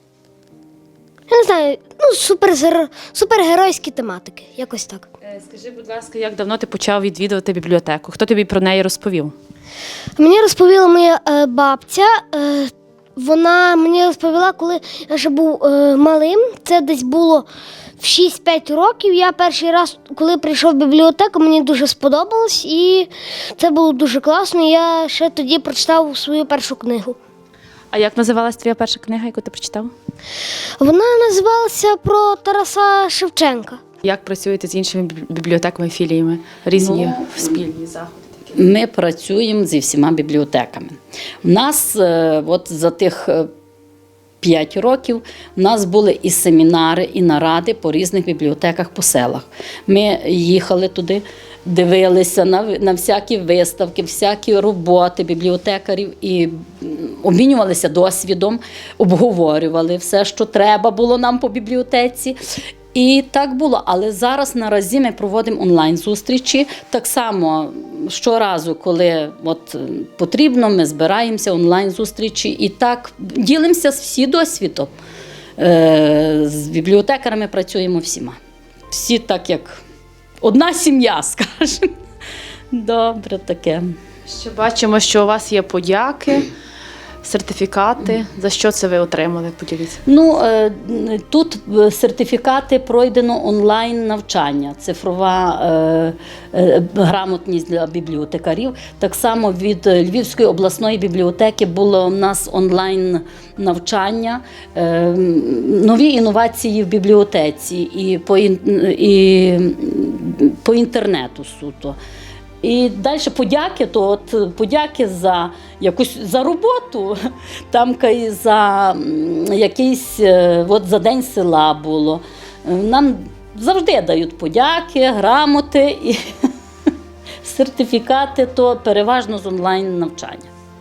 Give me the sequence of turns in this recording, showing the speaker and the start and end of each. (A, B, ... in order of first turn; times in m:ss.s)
0:01.3-0:05.1 A
0:05.2-0:09.3 B
0:10.2-0:17.5 A
0:18.0-0:27.2 A
0:27.9-0:29.9 B
0:30.8-0:33.8 A
0:34.0-0:38.5 B
0:36.7-0:37.3 C
0:38.5-0:43.5 C
0:44.4-1:02.4 C
1:02.9-1:14.9 C
1:15.6-1:18.4 C
1:18.9-1:19.8 C
1:20.4-1:21.9 C
1:22.7-1:23.9 C
1:24.3-1:26.5 B
1:27.2-1:30.0 B
1:30.0-1:52.0 C
1:52.6-1:57.2 C
1:57.7-2:06.2 C
2:07.4-2:10.5 C